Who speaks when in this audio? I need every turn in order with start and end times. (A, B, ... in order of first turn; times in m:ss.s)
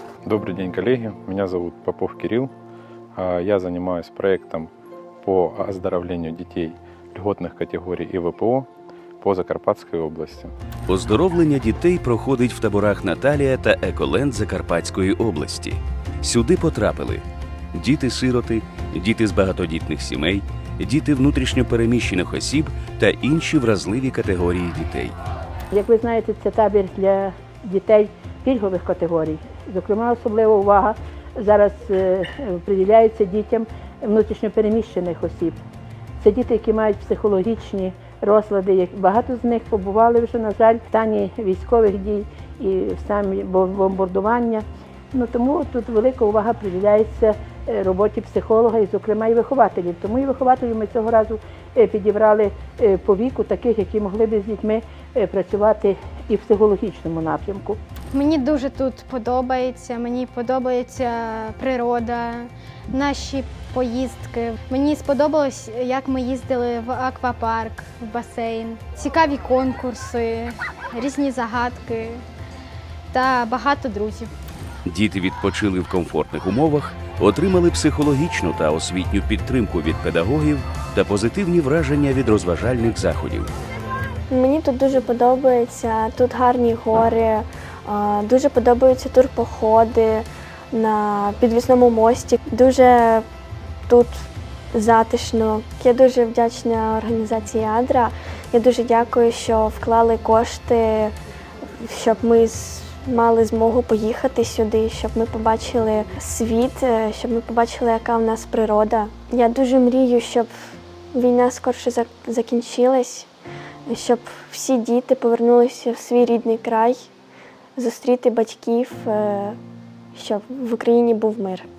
0:00.2-0:02.5 A
0:03.1-0:04.7 A
0:05.2-0:08.7 A
0:09.2-0:10.5 A
0:10.9-0:25.1 B
0:25.8-0:35.6 C
0:36.2-0:44.6 C
0:45.1-0:57.8 C
0:58.1-1:12.2 D
1:13.1-1:14.3 D
1:14.8-1:23.5 B
1:24.3-1:33.2 E
1:33.9-1:34.2 E
1:34.7-1:41.1 E
1:41.8-1:53.3 E
1:53.9-1:57.1 E
1:57.8-1:59.6 E
2:00.1-2:01.6 E